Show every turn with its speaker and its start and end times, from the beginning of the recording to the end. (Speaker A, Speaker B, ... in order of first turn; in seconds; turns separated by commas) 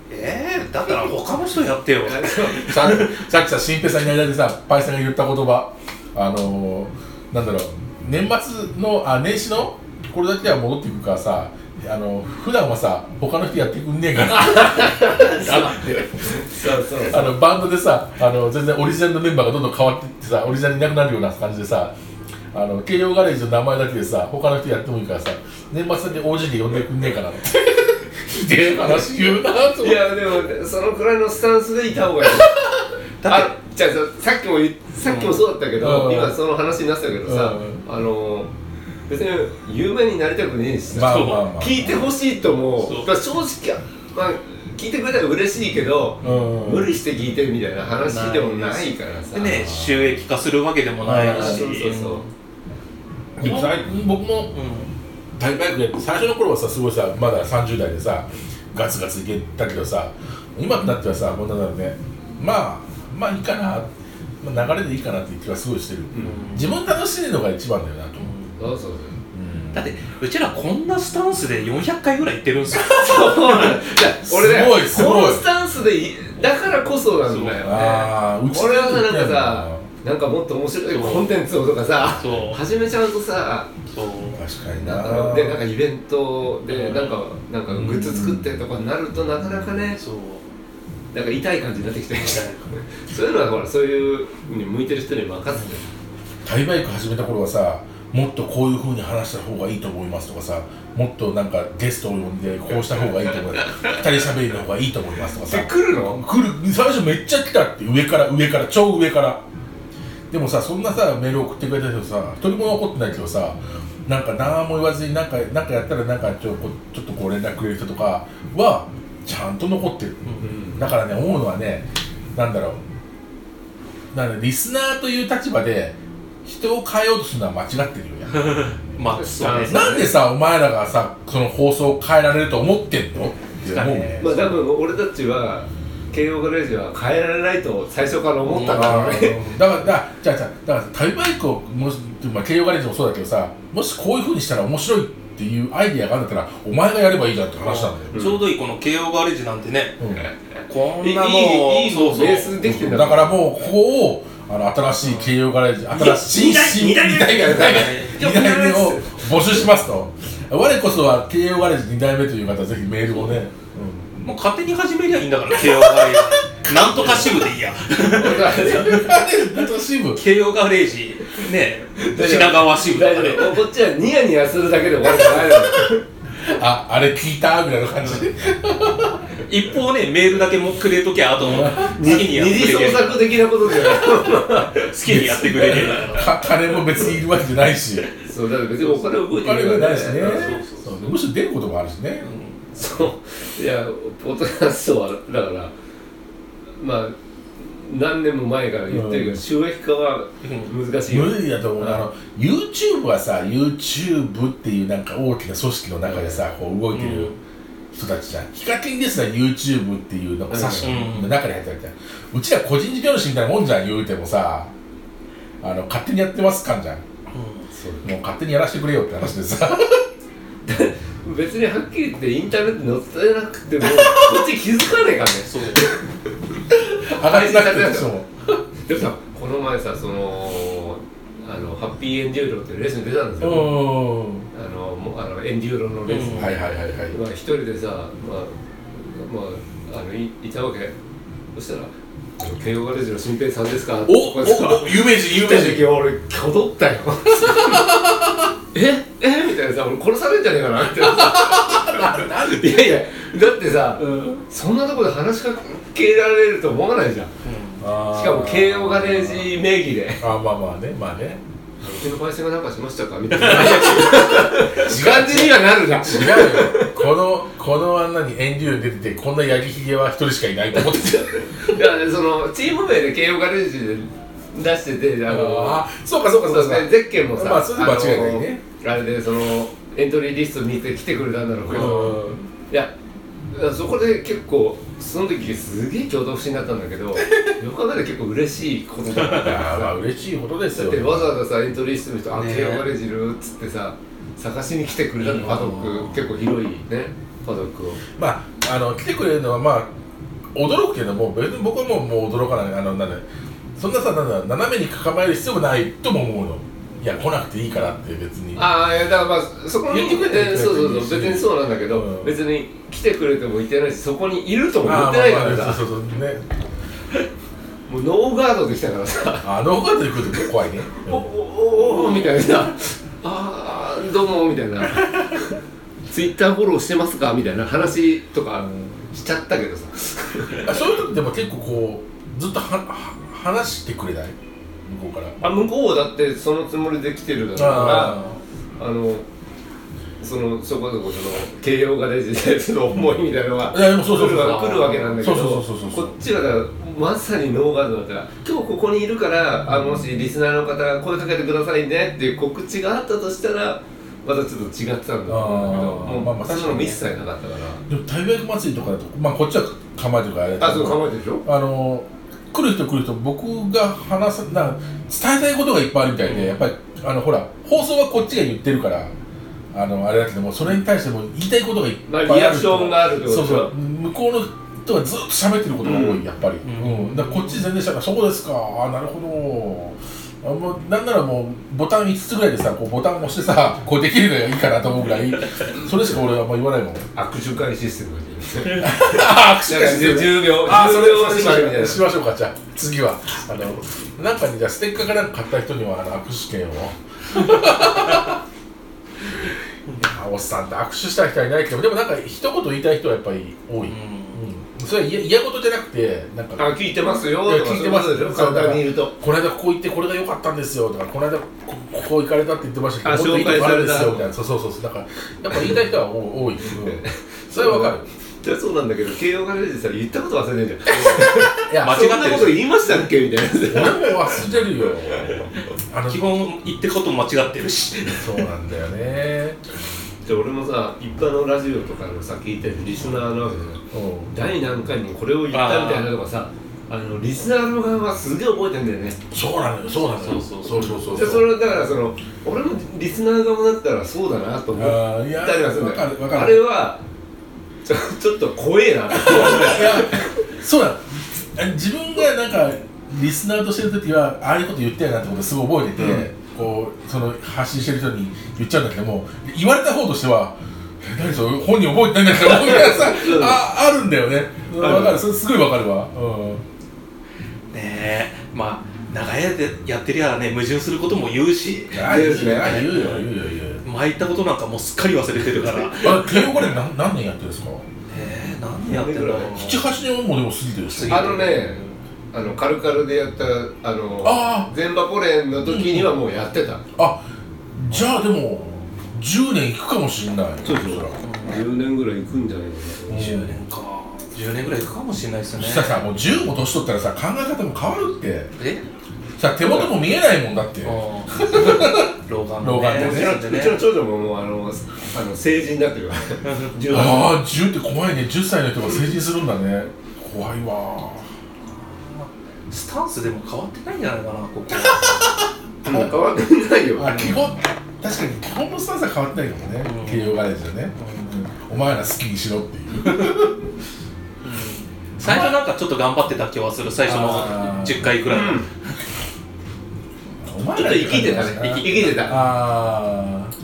Speaker A: 0.1-3.2, Speaker B: 0.8-1.2, Speaker B: 2.0-2.8, Speaker C: 2.6-16.3, Speaker B: 14.3-17.4, Speaker C: 17.0-21.9, Speaker C: 22.5-30.1, Speaker B: 28.8-29.2, Speaker B: 29.8-32.7, Speaker A: 33.2-33.5, Speaker B: 33.2-38.5, Speaker A: 35.0-35.4, Speaker C: 35.8-36.4, Speaker C: 37.2-37.8, Speaker B: 39.1-49.7, Speaker C: 40.9-42.1, Speaker A: 41.0-41.5, Speaker A: 42.8-43.1, Speaker C: 46.2-47.0, Speaker A: 48.0-52.3, Speaker C: 49.5-50.2, Speaker C: 51.0-51.7, Speaker B: 51.1-52.2, Speaker C: 53.4-54.5, Speaker A: 53.4-53.9, Speaker A: 54.5-54.9, Speaker C: 55.4-68.3, Speaker B: 66.1-66.4, Speaker A: 66.2-66.8, Speaker A: 68.2-68.6, Speaker B: 68.6-69.2, Speaker C: 69.3-69.8, Speaker A: 69.7-73.8, Speaker B: 72.7-83.7, Speaker C: 74.2-75.4, Speaker A: 77.2-77.9, Speaker C: 77.6-79.9, Speaker A: 80.9-81.3, Speaker A: 82.2-82.6, Speaker A: 83.9-84.4, Speaker C: 84.3-85.6, Speaker B: 84.8-90.0, Speaker A: 86.7-87.2, Speaker C: 87.7-88.5, Speaker A: 89.9-90.5, Speaker B: 91.1-95.8, Speaker A: 92.1-92.7, Speaker C: 96.4-109.4, Speaker B: 103.6-103.9, Speaker B: 105.4-106.2, Speaker C: 110.3-122.8, Speaker B: 120.4-120.9, Speaker C: 124.1-129.0, Speaker A: 128.3-129.8, Speaker B: 129.1-130.1, Speaker C: 129.5-134.4, Speaker A: 133.6-134.6, Speaker B: 134.2-139.4, Speaker A: 138.4-139.3, Speaker C: 138.6-148.2, Speaker A: 147.6-150.0, Speaker B: 148.1-148.4, Speaker C: 150.0-150.3, Speaker A: 150.7-152.6, Speaker B: 151.0-153.4, Speaker C: 152.6-164.2, Speaker A: 155.0-155.3, Speaker B: 155.9-159.5, Speaker A: 157.4-158.2, Speaker A: 163.1-163.4, Speaker A: 164.2-168.9, Speaker B: 166.9-167.3, Speaker B: 168.1-169.1, Speaker C: 168.5-170.2, Speaker A: 170.1-173.6, Speaker B: 172.0-176.0, Speaker C: 176.4-179.3, Speaker A: 179.4-183.3, Speaker C: 181.4-182.3, Speaker B: 181.8-186.0, Speaker A: 184.8-186.4, Speaker C: 185.0-188.1, Speaker B: 188.2-190.6, Speaker C: 188.8-192.3, Speaker A: 190.2-191.1, Speaker A: 192.2-192.6, Speaker B: 192.7-195.7, Speaker B: 196.8-202.0, Speaker C: 198.9-199.4, Speaker A: 200.4-200.7, Speaker C: 201.1-207.3, Speaker B: 206.0-206.4, Speaker A: 206.9-207.3, Speaker C: 207.9-214.7, Speaker B: 210.5-210.9, Speaker A: 210.7-211.3, Speaker C: 215.6-217.0, Speaker A: 217.3-217.7, Speaker B: 217.7-218.1, Speaker C: 218.0-220.1, Speaker B: 220.6-226.2, Speaker C: 223.8-224.4, Speaker A: 225.4-225.9, Speaker C: 226.7-228.6, Speaker B: 227.1-228.1, Speaker B: 228.8-233.9, Speaker C: 233.4-234.5, Speaker B: 234.5-236.6, Speaker A: 236.1-236.6, Speaker C: 236.3-237.2, Speaker B: 237.1-240.9, Speaker B: 241.5-247.9, Speaker C: 244.1-245.9, Speaker C: 247.3-248.5, Speaker B: 248.7-257.3, Speaker C: 251.0-252.9, Speaker C: 254.0-254.4, Speaker A: 257.4-257.9, Speaker C: 257.8-259.6, Speaker B: 258.1-260.2, Speaker C: 260.2-261.4, Speaker B: 261.8-266.9, Speaker C: 263.3-271.8, Speaker A: 263.5-264.1, Speaker B: 270.8-282.9, Speaker C: 275.3-278.6, Speaker C: 281.7-282.4, Speaker A: 281.7-282.3, Speaker B: 283.5-289.9, Speaker C: 289.2-291.4, Speaker B: 290.7-298.0, Speaker A: 292.3-292.9, Speaker A: 295.2-296.1, Speaker C: 298.1-299.9, Speaker C: 300.5-303.2, Speaker C: 303.8-308.7, Speaker B: 308.5-315.8, Speaker C: 309.9-312.4, Speaker C: 314.8-316.4, Speaker B: 317.9-319.5, Speaker C: 319.4-321.3, Speaker B: 321.0-330.9, Speaker C: 330.6-334.3, Speaker C: 334.9-335.4, Speaker B: 335.4-338.2, Speaker C: 337.5-338.4, Speaker A: 337.6-338.4, Speaker B: 338.8-339.2, Speaker B: 340.2-357.8, Speaker C: 343.7-346.1, Speaker A: 344.3-345.2, Speaker C: 349.7-350.1, Speaker C: 355.3-357.0, Speaker C: 357.9-369.1, Speaker B: 360.6-361.4, Speaker A: 366.2-366.6, Speaker C: 369.7-387.1, Speaker B: 372.1-373.7, Speaker B: 375.8-376.2, Speaker A: 376.6-377.6, Speaker B: 387.1-392.0, Speaker C: 388.7-398.4, Speaker C: 400.0-406.7, Speaker A: 403.9-404.4, Speaker B: 406.6-409.1, Speaker C: 407.3-418.0, Speaker B: 413.0-414.2, Speaker B: 416.8-424.6, Speaker A: 420.9-422.6, Speaker C: 421.5-422.0, Speaker C: 423.7-426.2, Speaker B: 425.1-425.5, Speaker A: 426.1-428.4, Speaker C: 428.2-429.6, Speaker B: 430.2-439.2, Speaker C: 433.9-434.3, Speaker A: 435.5-436.1, Speaker C: 439.3-441.5, Speaker A: 439.9-441.4, Speaker B: 441.0-447.0, Speaker C: 444.7-446.6, Speaker B: 447.8-450.3, Speaker C: 449.1-466.6, Speaker B: 455.9-456.3, Speaker B: 462.4-463.6, Speaker B: 464.7-465.2, Speaker A: 467.7-476.8, Speaker C: 471.9-473.8, Speaker B: 472.0-472.9, Speaker C: 475.6-477.9, Speaker A: 478.1-479.9, Speaker B: 478.9-479.5, Speaker C: 479.5-481.4, Speaker A: 480.9-482.0, Speaker B: 481.1-486.9, Speaker C: 484.2-484.7, Speaker C: 485.6-486.1, Speaker C: 486.9-491.2, Speaker B: 490.6-493.2, Speaker A: 491.2-491.6, Speaker C: 493.1-493.6, Speaker A: 493.1-496.0, Speaker C: 495.6-498.5, Speaker A: 498.6-498.8, Speaker C: 499.4-503.4, Speaker B: 499.6-499.9, Speaker A: 500.8-503.8, Speaker B: 502.9-507.4, Speaker A: 506.4-507.2, Speaker C: 506.9-511.3, Speaker A: 511.7-515.3, Speaker C: 514.7-516.1, Speaker B: 515.8-517.4, Speaker C: 516.9-523.6, Speaker A: 519.8-521.4, Speaker A: 523.0-523.3, Speaker A: 524.4-529.0, Speaker C: 525.2-525.6, Speaker C: 527.0-528.1, Speaker B: 528.3-528.6, Speaker C: 530.4-533.5, Speaker B: 530.7-532.4, Speaker A: 532.1-532.5